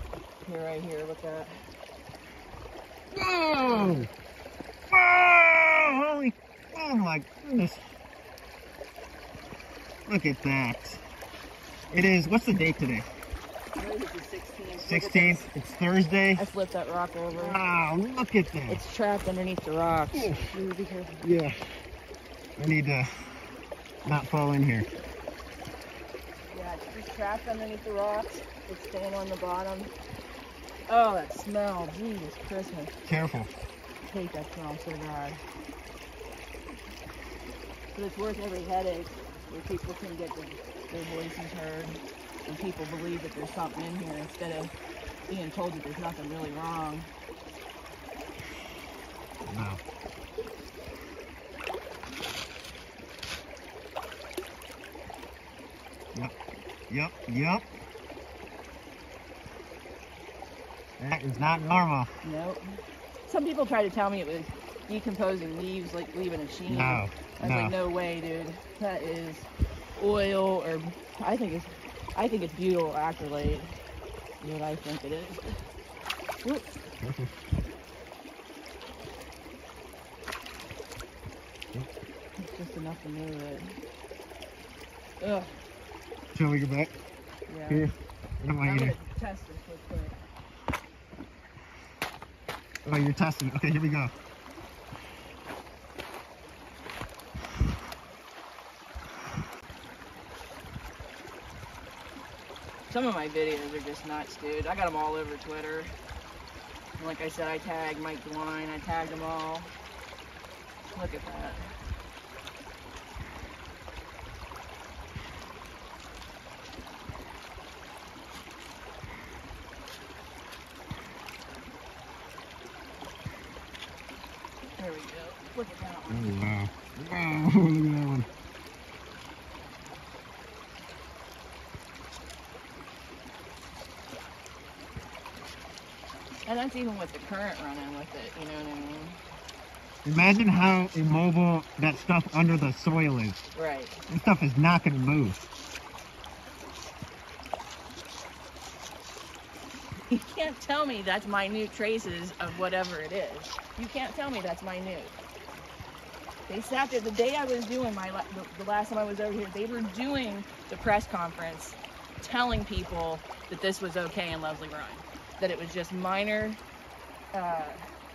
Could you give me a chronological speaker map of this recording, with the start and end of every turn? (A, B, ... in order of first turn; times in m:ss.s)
0:00.4-0:01.5 A
0:03.1-0:04.1 B
0:04.9-0:07.8 B
0:10.1-0:11.0 B
0:11.9-0:13.1 B
0:13.8-0:15.4 A
0:14.8-0:16.4 B
0:16.4-0:17.6 A
0:17.4-0:18.8 B
0:18.7-0:21.2 A
0:20.1-0:20.5 B
0:21.2-0:21.6 B
0:22.6-0:23.1 B
0:24.0-0:24.9 B
0:26.5-0:29.9 A
0:30.9-0:32.9 A
0:33.0-0:33.5 B
0:34.0-0:35.4 A
0:37.9-0:44.7 A
0:45.3-0:47.1 A
0:49.5-0:49.8 B
0:56.9-0:57.7 B
1:01.0-1:02.1 B
1:02.2-1:02.6 A
1:03.3-1:13.7 A
1:06.7-1:07.8 B
1:14.4-1:15.6 A
1:17.0-1:17.3 B
1:22.4-1:23.8 A
1:25.2-1:25.5 A
1:26.3-1:26.9 B
1:27.5-1:27.9 A
1:27.7-1:29.0 B
1:28.6-1:30.2 A
1:32.8-1:34.1 B
1:42.9-1:45.9 A
1:47.0-1:49.7 A
1:50.9-1:51.6 A
2:04.8-2:06.4 A
2:06.1-2:08.3 B
2:16.5-2:19.2 A
2:20.0-2:23.4 B
2:23.6-2:24.0 A
2:24.1-2:25.4 B
2:30.1-2:35.1 A
2:36.5-2:46.6 A
2:47.3-2:47.8 A